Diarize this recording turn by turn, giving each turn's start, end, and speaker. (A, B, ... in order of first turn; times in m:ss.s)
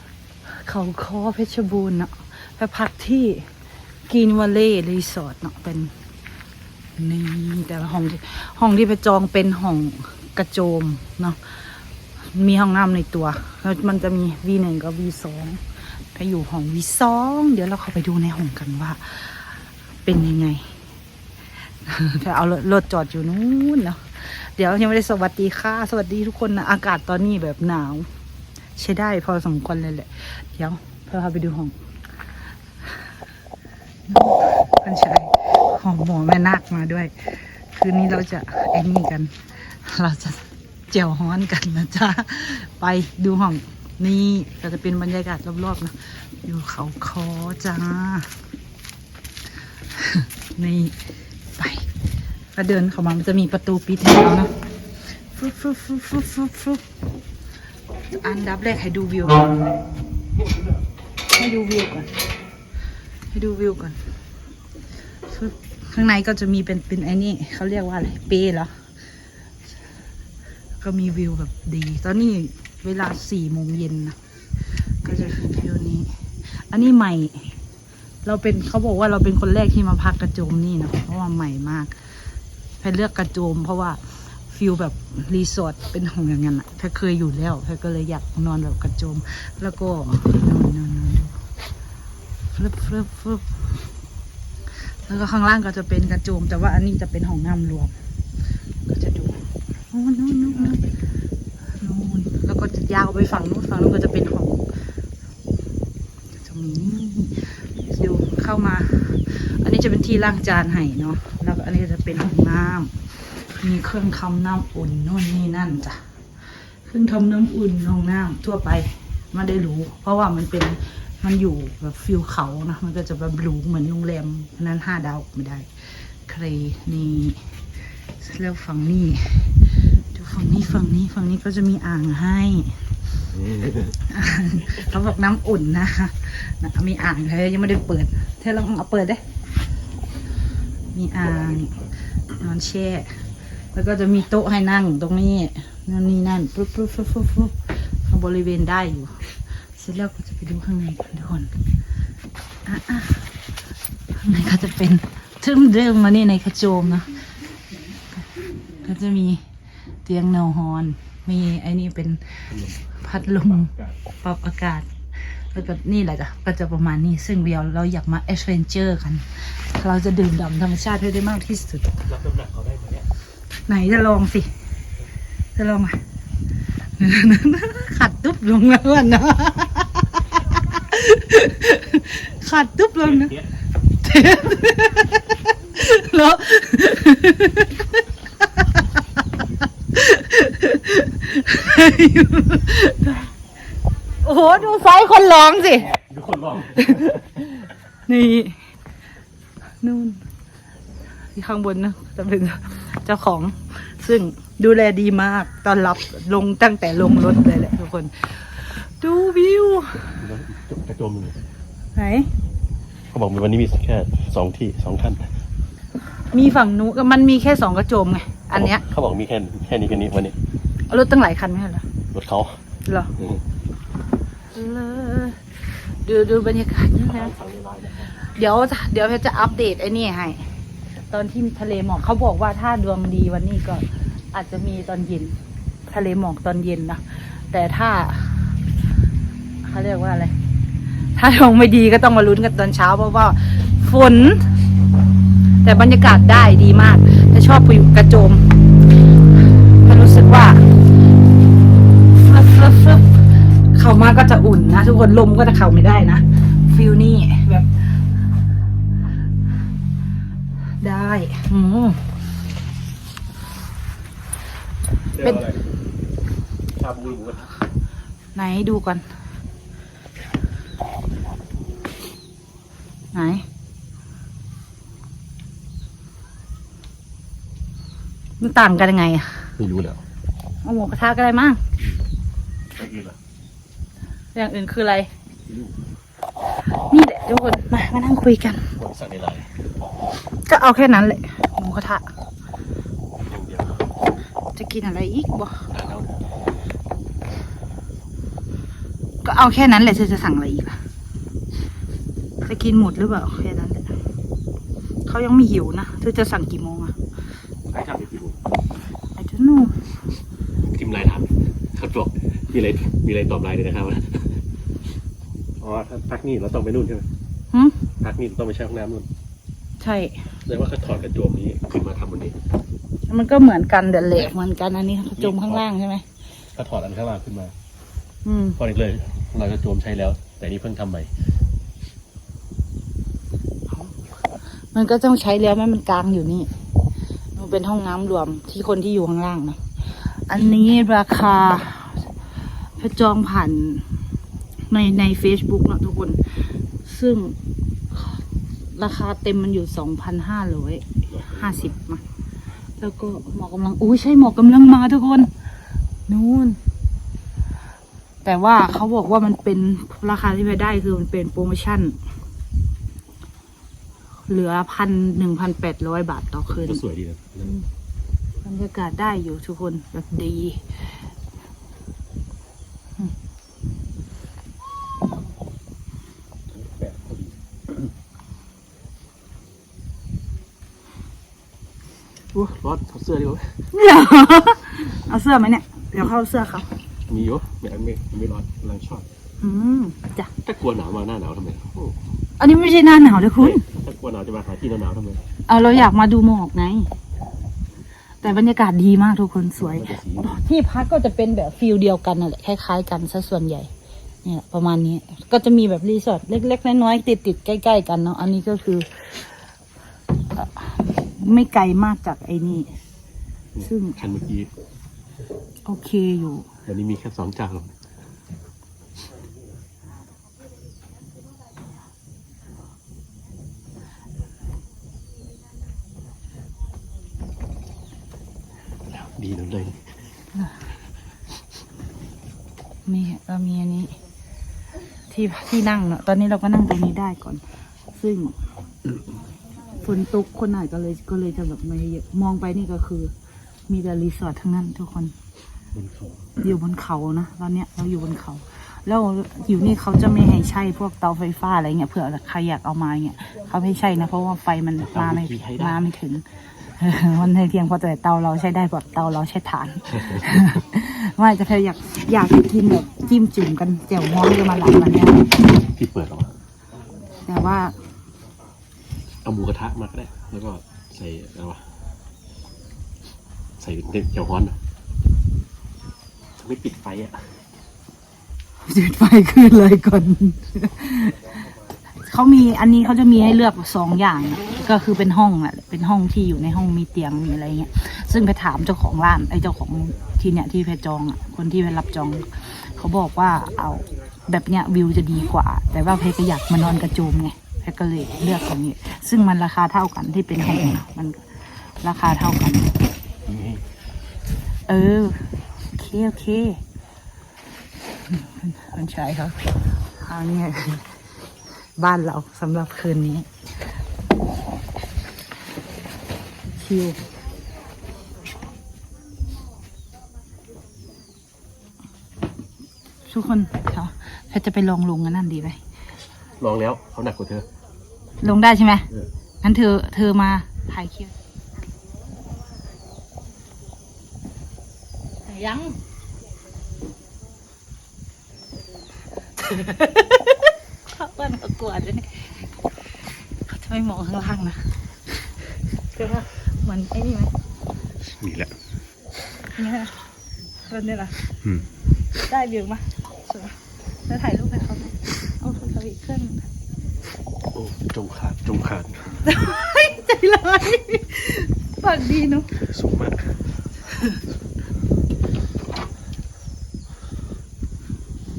0:00.5-0:03.5 A
0:04.1-0:05.9 A
0:07.0-0:11.6 A
0:12.3-0:15.6 A
0:16.1-0:20.7 A
0:21.8-0:28.1 A
0:28.8-0:31.8 A
0:34.1-0:48.3 A
0:49.9-0:51.0 A
0:51.6-0:51.9 A
0:52.5-0:54.5 A
0:55.2-0:56.8 A
0:58.1-0:59.5 A
1:01.3-1:02.1 A
1:03.3-1:04.0 A
1:05.2-1:08.7 A
1:10.8-1:14.2 A
1:15.0-1:17.5 A
1:18.2-1:22.0 A
1:22.8-1:31.4 A
1:32.5-1:33.5 A
1:34.8-1:37.9 A
1:38.9-1:40.9 A
1:41.8-1:44.6 A
1:46.4-1:56.0 A
1:56.8-2:07.5 A
2:08.2-2:12.8 A
2:13.3-2:14.0 B
2:14.1-2:19.2 A
2:20.9-2:23.2 A
2:23.7-2:31.5 A
2:32.6-2:33.3 A
2:34.2-2:37.2 A
2:38.8-2:39.4 A
2:40.0-2:43.7 A
2:42.5-2:43.9 B
2:44.2-2:52.0 A
2:52.0-2:53.1 B
2:53.7-2:54.5 A
2:55.6-2:56.0 A
2:57.0-3:03.4 A
3:03.0-3:03.5 B
3:04.0-3:08.8 A
3:09.9-3:13.3 A
3:14.2-3:15.9 A
3:15.8-3:17.4 B
3:16.9-3:17.2 A
3:18.1-3:18.6 A
3:19.8-3:20.2 A
3:21.3-3:30.2 A
3:30.1-3:31.4 B
3:31.9-3:32.3 A
3:33.1-3:35.3 B
3:36.3-3:38.8 A
3:38.6-3:40.4 B
3:40.9-3:41.8 A
3:42.1-3:42.6 B
3:42.8-3:43.1 A
3:43.2-3:43.4 B
3:44.5-3:45.4 A
3:46.0-3:47.3 A
3:46.9-3:48.2 B
3:48.2-3:50.5 A
3:51.1-3:58.6 A
3:59.6-4:00.3 A
4:01.2-4:04.5 A
4:05.6-4:08.5 A
4:09.5-4:10.7 A
4:12.1-4:13.2 A
4:13.7-4:17.9 A
4:20.8-4:22.1 A
4:25.1-4:25.7 B
4:25.2-4:25.4 A
4:26.7-4:27.5 B
4:28.3-4:29.0 A
4:33.1-4:33.4 A
4:38.4-4:39.5 A
4:39.6-4:40.0 B
4:40.6-4:41.6 A
4:42.7-4:43.2 B
4:44.3-4:45.1 A
4:46.8-4:48.7 A
4:48.8-4:49.5 B
4:50.4-4:52.1 A
4:53.2-4:53.8 B
4:54.5-4:55.7 A
4:55.7-4:56.2 B
4:59.2-5:00.8 A
5:02.4-5:03.9 A
5:05.0-5:06.9 A
5:07.7-5:08.4 B
5:09.2-5:09.8 A
5:10.6-5:14.4 B
5:15.6-5:17.1 B
5:17.5-5:17.8 A
5:18.0-5:19.1 B
5:19.8-5:20.3 A
5:20.4-5:22.4 B
5:23.1-5:26.0 A
5:25.2-5:25.6 B
5:26.5-5:27.5 B
5:28.2-5:28.6 A
5:28.6-5:31.1 B
5:34.7-5:36.5 A
5:37.3-5:42.1 A
5:42.8-5:43.9 A
5:44.7-5:47.4 A
5:47.9-5:48.2 A
5:48.7-5:52.0 A
5:51.1-5:51.7 B
5:52.8-5:55.3 A
5:56.1-5:56.6 A
5:58.2-6:02.0 A
6:04.3-6:06.8 A
6:06.5-6:07.6 B
6:08.4-6:10.6 A
6:16.5-6:17.3 B
6:22.3-6:23.6 B
6:23.7-6:26.7 A
6:27.1-6:29.0 B
6:29.4-6:30.3 A
6:30.4-6:32.0 B
6:32.4-6:33.6 A
6:33.4-6:35.2 B
6:35.5-6:36.9 A
6:38.2-6:43.7 A
6:39.6-6:40.4 B
6:44.2-6:49.2 A
6:50.3-6:52.7 A
6:53.5-6:54.5 B
6:53.6-6:54.0 A
6:55.6-6:56.5 A
6:56.6-6:57.7 B
7:08.9-7:09.9 B
7:12.8-7:14.0 A
7:15.1-7:18.4 A
7:19.8-7:23.1 A
7:23.7-7:25.1 A
7:25.7-7:26.3 B
7:26.4-7:45.3 A
7:34.8-7:35.8 B
7:39.9-7:40.4 B
7:45.6-7:46.3 B
7:47.2-7:47.7 A
7:49.2-7:51.6 B
7:53.6-7:54.6 B
7:56.4-7:57.3 B
7:58.6-8:01.3 A
8:02.0-8:22.8 A
8:23.3-8:23.6 B
8:24.7-8:26.6 A
8:28.0-8:30.9 A
8:31.8-8:33.3 A
8:36.5-8:37.0 A
8:43.1-8:45.6 A
8:46.4-8:47.5 B
8:48.2-8:48.9 A
8:49.4-8:51.1 A
8:55.2-8:55.8 A
8:59.4-9:02.3 A
9:03.5-9:04.6 A
9:05.9-9:07.3 A
9:08.0-9:08.5 B
9:09.5-9:09.9 A
9:10.6-9:11.2 A
9:12.2-9:16.5 A
9:17.5-9:19.2 B
9:19.2-9:22.5 A
9:22.6-9:23.3 B